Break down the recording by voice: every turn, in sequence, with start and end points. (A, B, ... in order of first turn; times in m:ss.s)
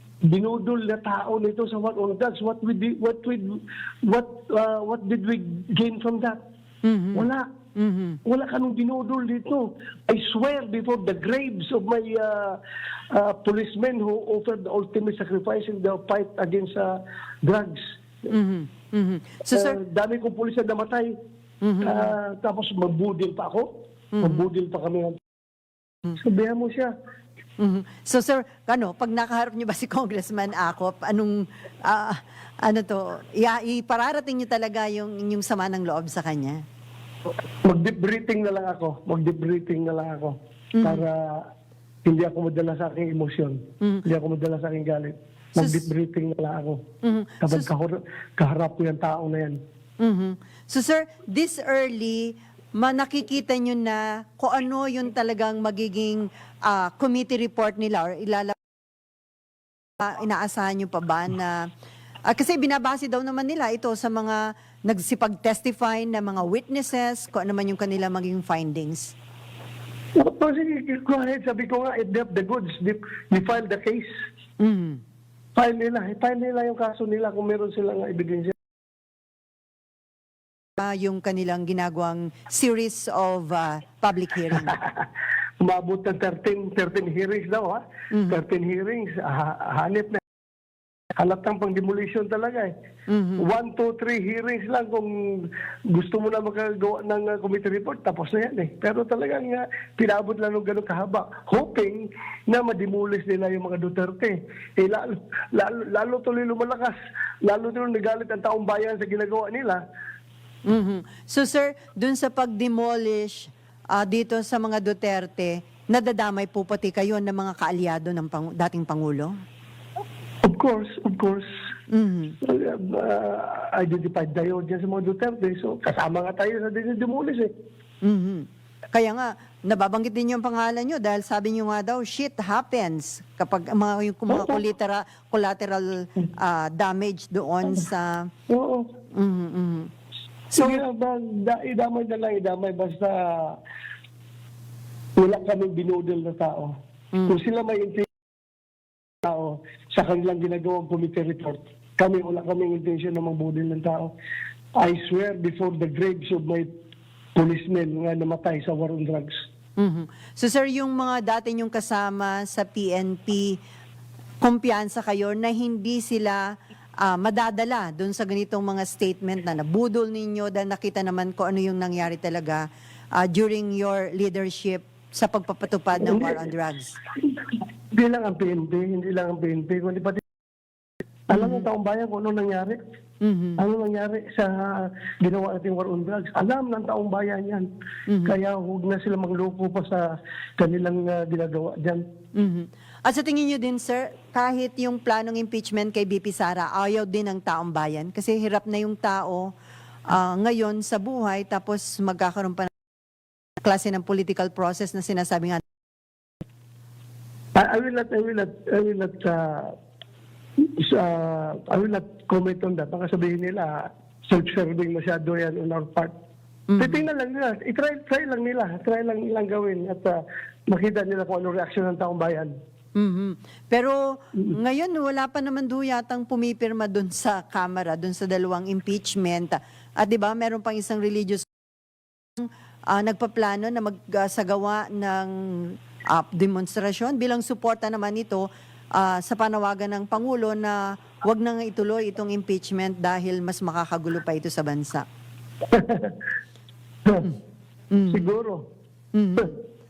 0:00.3-0:06.4 A
0:06.8-0:08.2 B
0:07.1-0:07.5 A
0:08.2-0:12.6 A
0:13.1-0:17.8 A
0:18.3-0:19.8 B
0:19.5-0:21.1 A
0:21.6-0:22.1 B
0:21.8-0:23.7 A
0:24.2-0:24.4 B
0:24.2-0:25.2 A
0:26.2-0:26.9 A
0:27.6-0:36.6 B
0:37.6-0:41.4 A
0:40.8-0:41.0 B
0:42.0-0:46.8 A
0:45.6-0:45.9 B
0:47.0-0:47.7 B
0:47.4-0:49.6 A
0:50.0-0:58.6 B
1:00.0-1:01.7 B
1:02.3-1:09.2 B
1:10.2-1:14.1 A
1:14.6-1:15.0 B
1:15.6-1:18.5 A
1:20.8-1:24.8 B
1:24.5-1:25.0 A
1:25.6-1:30.2 A
1:28.1-1:28.4 B
1:31.2-1:32.7 A
1:33.1-1:33.5 B
1:33.4-1:46.9 A
1:47.5-1:49.8 A
1:50.7-1:59.3 B
2:00.4-2:01.5 A
2:01.9-2:02.4 B
2:02.4-2:07.5 A
2:08.0-2:18.3 B
2:14.3-2:14.6 A
2:18.5-2:18.8 A
2:19.2-2:19.9 B
2:20.5-2:20.8 B
2:20.6-2:23.6 A
2:25.2-2:26.7 A
2:27.1-2:27.4 B
2:27.3-2:28.1 A
2:29.2-2:34.1 A
2:34.8-2:36.7 A
2:37.4-2:39.4 A
2:39.8-2:43.6 B
2:44.4-2:46.4 B
2:47.0-2:52.6 B
2:53.2-2:57.0 B
2:56.0-2:56.5 A
2:57.4-3:00.2 A
3:01.3-3:02.8 A
3:01.3-3:01.6 B
3:03.2-3:03.6 B
3:03.6-3:07.7 A
3:08.1-3:08.4 B
3:08.2-3:12.0 A
3:12.4-3:19.5 B
3:20.1-3:22.7 B
3:23.6-3:25.6 B
3:27.6-3:29.7 A
3:30.6-3:36.1 A
3:36.7-3:37.0 B
3:36.8-3:42.5 A
3:43.0-3:51.5 B
3:52.4-4:05.0 B
4:05.7-4:06.2 A
4:07.9-4:08.3 B
4:08.1-4:08.6 A
4:09.2-4:09.6 B